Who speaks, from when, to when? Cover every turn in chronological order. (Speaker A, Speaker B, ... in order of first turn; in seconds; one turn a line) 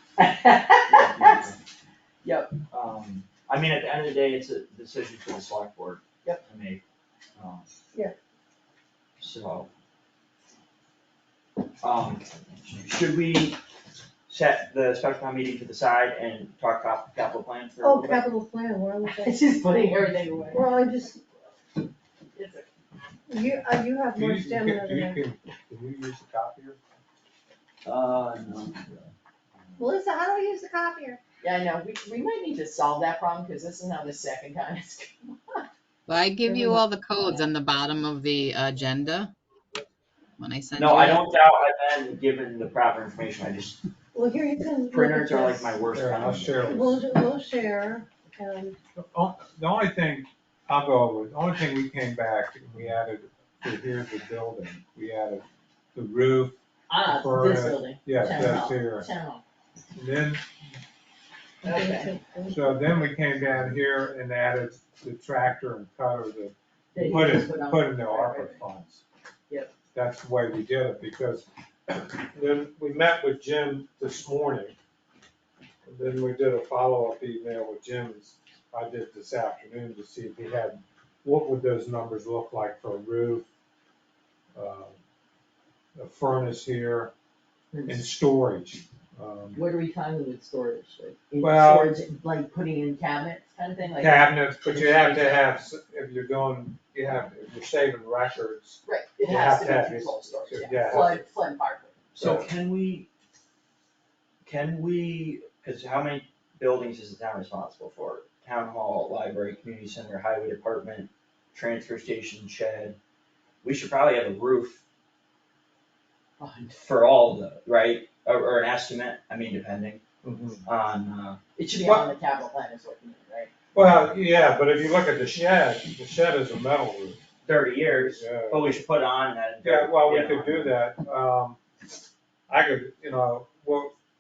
Speaker A: 0.2-1.5
Speaker B: 0.9-1.6
Speaker A: 2.2-2.6
Speaker B: 2.7-6.8
Speaker B: 7.3-7.7
Speaker B: 9.2-9.7
Speaker B: 11.8-13.6
Speaker B: 14.3-18.2
Speaker C: 17.8-19.4
Speaker A: 19.2-20.7
Speaker C: 20.5-21.2
Speaker A: 22.3-22.7
Speaker C: 23.3-25.2
Speaker D: 24.1-26.8
Speaker B: 27.8-28.9
Speaker C: 29.8-31.2
Speaker A: 31.4-35.7
Speaker E: 36.1-39.3
Speaker C: 36.5-36.8
Speaker E: 40.4-41.2
Speaker B: 40.8-43.8
Speaker C: 44.1-45.8
Speaker B: 44.9-46.6
Speaker D: 45.9-47.0
Speaker C: 46.6-48.8
Speaker D: 49.0-59.1
Speaker A: 56.9-59.4
Speaker D: 60.0-60.5
Speaker A: 61.6-62.1
Speaker C: 61.6-63.1
Speaker D: 62.5-69.0
Speaker A: 66.9-68.6
Speaker D: 69.9-74.7
Speaker D: 75.8-83.5
Speaker D: 84.5-85.0
Speaker D: 86.0-87.1
Speaker A: 87.7-88.0
Speaker D: 87.9-89.6
Speaker A: 89.5-95.4
Speaker D: 91.4-91.9
Speaker D: 94.0-101.2
Speaker A: 98.8-102.0
Speaker D: 102.1-102.5
Speaker B: 102.2-103.1
Speaker B: 104.4-113.0
Speaker B: 113.6-114.8
Speaker A: 116.4-116.8
Speaker B: 116.8-120.0
Speaker D: 120.2-120.6
Speaker B: 120.6-121.4
Speaker A: 121.6-123.5
Speaker D: 121.8-122.1
Speaker D: 123.7-127.2
Speaker B: 123.8-124.1
Speaker B: 127.4-130.7
Speaker D: 127.9-128.7
Speaker D: 129.6-131.6
Speaker D: 132.5-133.9